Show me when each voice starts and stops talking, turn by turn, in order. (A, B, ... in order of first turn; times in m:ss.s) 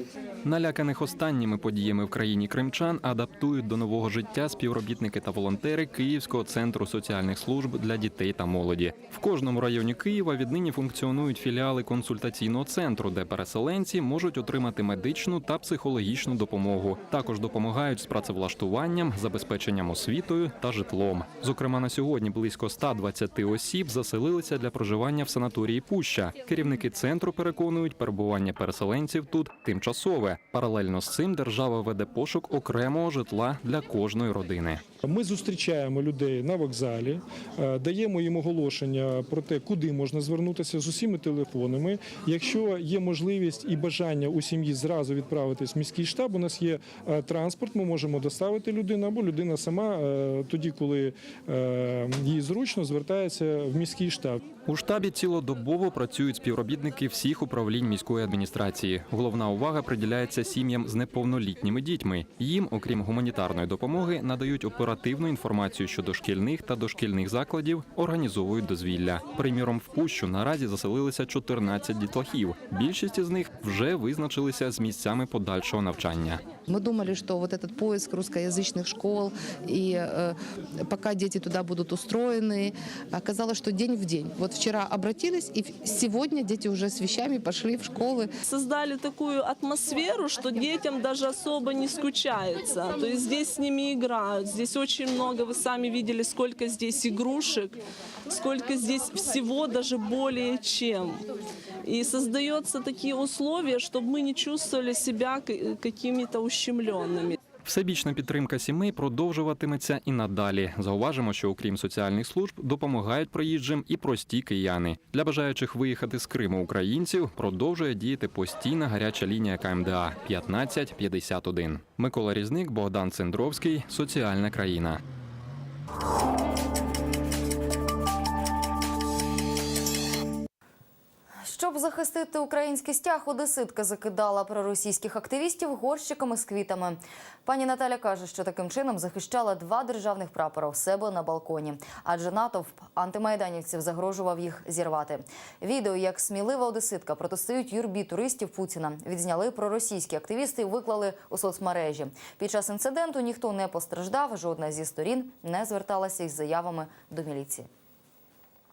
0:00.4-0:34.8 A
0:35.0-0:54.4 B
0:54.7-1:16.4 A
1:16.7-1:20.3 C
1:20.8-1:28.3 C
1:28.5-1:37.7 D
1:38.3-1:41.1 D
1:41.8-1:47.4 D
1:47.6-2:05.0 A
2:11.4-2:37.7 E